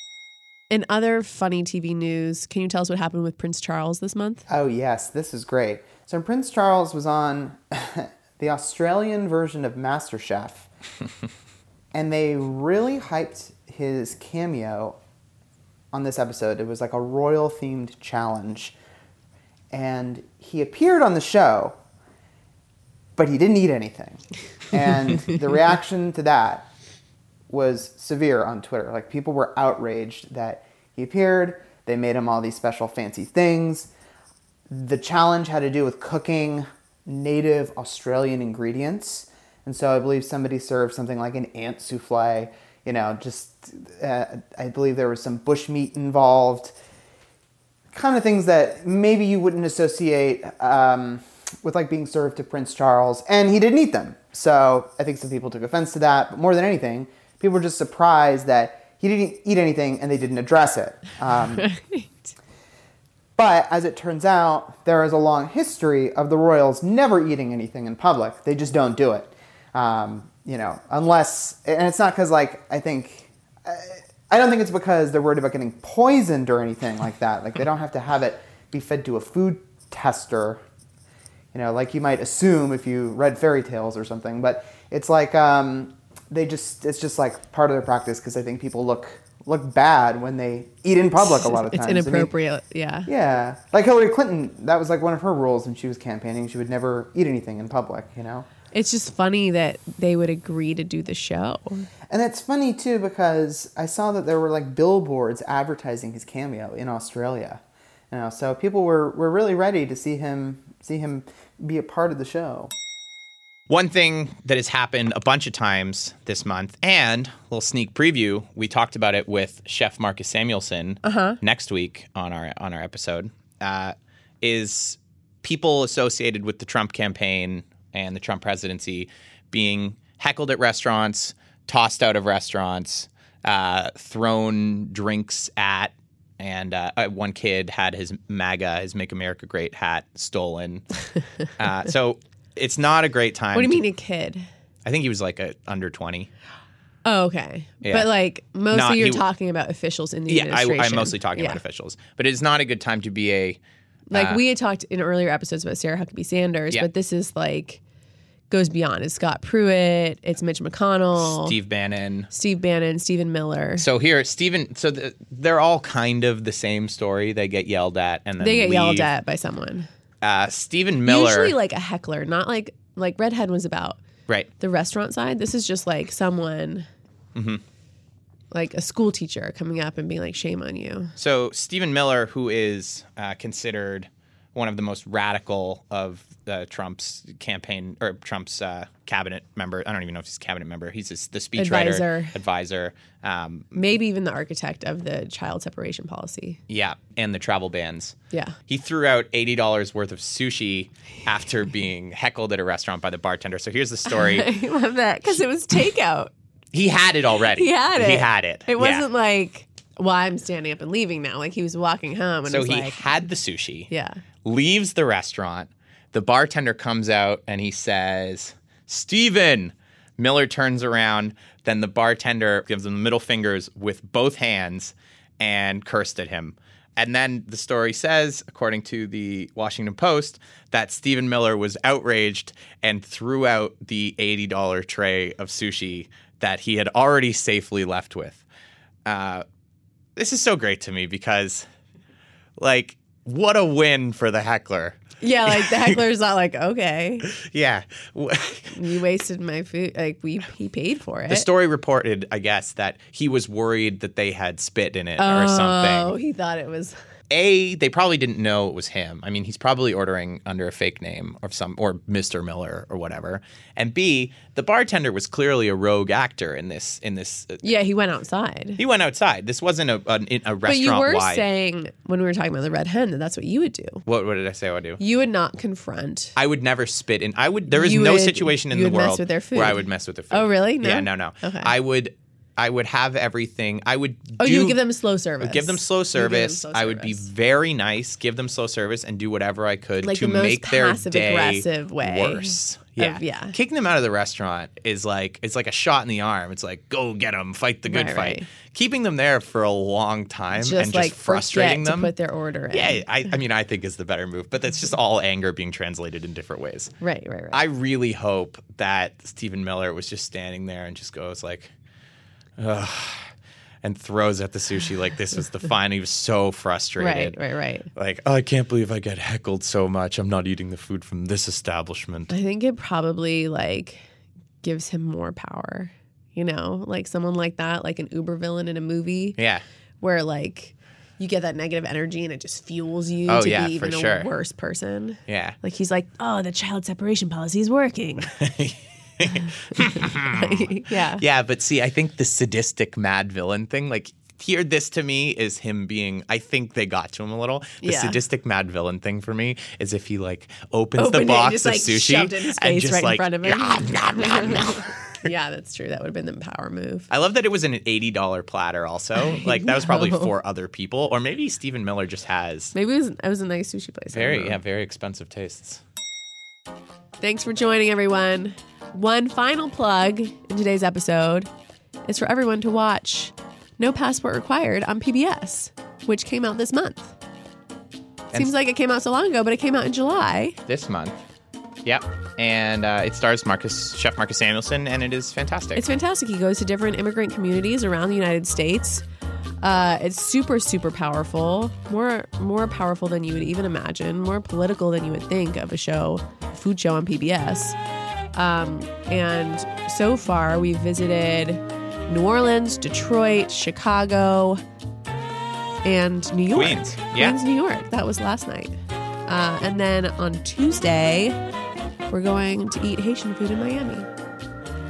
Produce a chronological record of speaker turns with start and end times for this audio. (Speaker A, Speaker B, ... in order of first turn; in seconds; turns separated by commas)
Speaker A: 0.7-4.5, Speaker B: 4.5-10.7, Speaker B: 11.9-15.0, Speaker B: 15.9-18.8, Speaker B: 19.7-21.8, Speaker B: 23.2-26.7, Speaker B: 27.5-33.9, Speaker B: 34.7-46.7, Speaker B: 47.9-61.7, Speaker A: 61.5-62.3, Speaker B: 63.4-80.6, Speaker B: 81.5-92.3, Speaker A: 91.2-93.1, Speaker B: 93.1-98.5, Speaker A: 98.7-101.9, Speaker B: 102.1-107.6, Speaker B: 108.1-112.7, Speaker C: 113.7-140.9, Speaker A: 121.0-121.4, Speaker C: 141.5-143.8, Speaker A: 143.5-144.4, Speaker C: 144.8-146.3, Speaker A: 147.1-151.6, Speaker C: 147.8-148.1, Speaker C: 148.7-149.2, Speaker C: 150.3-153.6, Speaker A: 154.1-157.8, Speaker C: 154.1-154.4, Speaker A: 158.5-161.6, Speaker C: 161.2-162.3, Speaker A: 162.3-163.9, Speaker C: 163.8-169.1, Speaker A: 168.4-169.9, Speaker C: 170.2-171.6, Speaker A: 171.1-174.0, Speaker A: 174.6-176.9, Speaker C: 177.3-177.6, Speaker A: 178.5-181.2, Speaker C: 181.2-193.7, Speaker A: 191.6-192.4, Speaker A: 193.7-196.6, Speaker C: 196.7-198.2, Speaker A: 198.3-198.6, Speaker C: 198.7-204.5, Speaker A: 204.1-206.3, Speaker C: 206.7-209.1, Speaker A: 207.5-213.1, Speaker C: 212.5-213.9, Speaker A: 213.9-214.2, Speaker C: 214.4-238.4, Speaker C: 239.1-239.4, Speaker C: 240.2-241.7, Speaker C: 242.6-246.0, Speaker A: 245.2-247.3, Speaker C: 247.2-248.8, Speaker A: 248.7-251.5, Speaker C: 251.3-256.1, Speaker A: 255.2-257.0, Speaker C: 257.3-267.6, Speaker A: 267.6-268.8, Speaker C: 268.8-271.4, Speaker A: 270.7-274.0, Speaker C: 274.1-275.0, Speaker A: 275.0-276.4, Speaker C: 276.4-284.8, Speaker A: 277.7-281.7, Speaker A: 284.4-287.3, Speaker C: 285.4-302.1, Speaker A: 290.0-293.6, Speaker A: 297.9-298.5, Speaker A: 300.6-303.0, Speaker C: 302.7-306.9, Speaker A: 307.0-307.6, Speaker C: 307.5-311.7, Speaker C: 312.6-313.3, Speaker C: 313.8-317.4, Speaker A: 317.0-317.9, Speaker C: 317.9-322.3, Speaker A: 322.3-324.1, Speaker A: 324.6-329.4, Speaker C: 329.4-329.6, Speaker A: 330.0-338.3, Speaker C: 333.3-334.3, Speaker C: 335.3-335.6, Speaker C: 338.3-355.3, Speaker A: 340.3-341.2, Speaker A: 347.8-348.2, Speaker A: 351.0-357.1, Speaker C: 357.1-362.7, Speaker A: 359.2-360.3, Speaker A: 362.7-364.6, Speaker C: 364.1-365.8, Speaker A: 367.2-371.5, Speaker A: 372.1-377.1, Speaker A: 378.3-380.6, Speaker C: 380.7-381.2, Speaker C: 381.8-385.8, Speaker A: 385.8-389.0, Speaker A: 389.6-397.8, Speaker A: 398.3-404.6, Speaker A: 405.8-411.4, Speaker C: 406.5-407.4, Speaker A: 412.1-414.1